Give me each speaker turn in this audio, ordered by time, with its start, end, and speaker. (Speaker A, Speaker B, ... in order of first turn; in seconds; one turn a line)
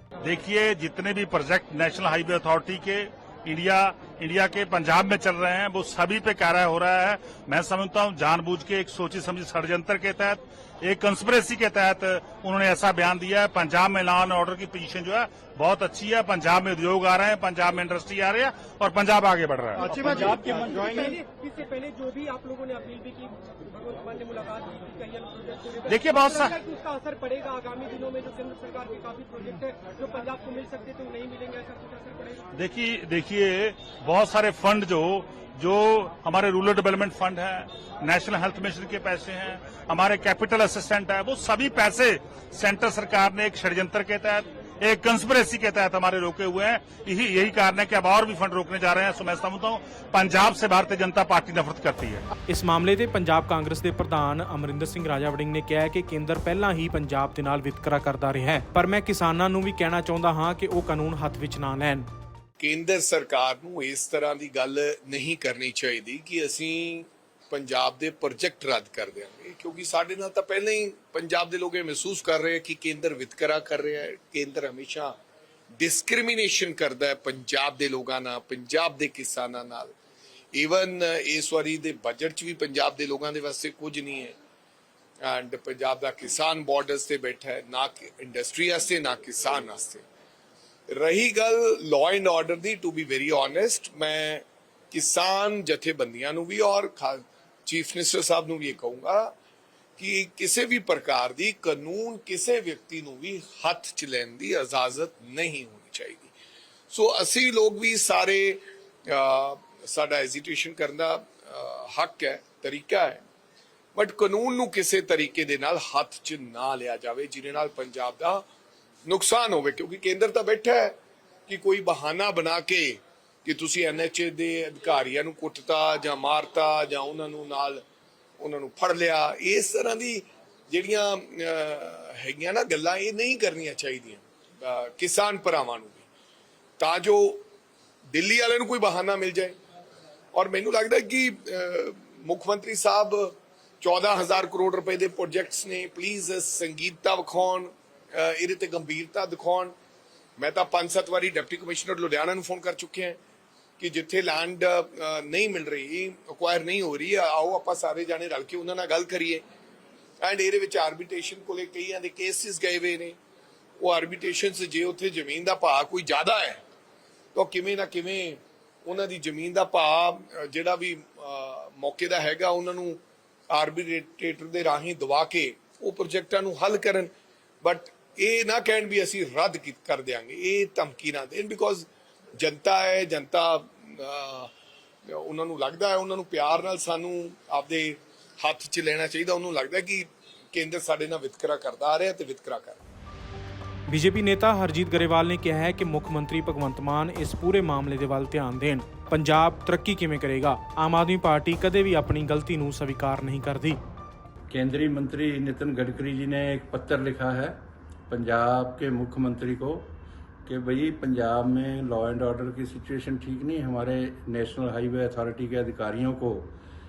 Speaker A: 0.2-21.2
Speaker B: 21.3-25.5
Speaker A: 25.7-26.8
Speaker B: 26.8-32.1
Speaker A: 32.5-52.3
Speaker C: 52.5-62.1
Speaker D: 62.6-75.2
Speaker D: 75.8-79.9
Speaker D: 80.5-84.3
Speaker D: 85.2-90.0
Speaker D: 90.9-99.3
Speaker D: 100.0-106.3
Speaker D: 106.9-113.2
Speaker D: 113.9-118.5
Speaker D: 119.0-121.0
Speaker D: 121.5-127.8
Speaker D: 128.4-136.1
Speaker D: 136.8-137.4
Speaker D: 138.1-139.6
Speaker D: 140.3-149.8
Speaker D: 150.4-153.2
Speaker D: 153.8-159.4
Speaker D: 160.2-163.2
Speaker D: 163.8-166.6
Speaker D: 167.3-177.1
Speaker D: 177.6-184.5
Speaker D: 185.1-192.8
Speaker C: 193.9-203.8
Speaker E: 204.5-207.6
Speaker E: 208.1-209.9
Speaker E: 210.5-216.5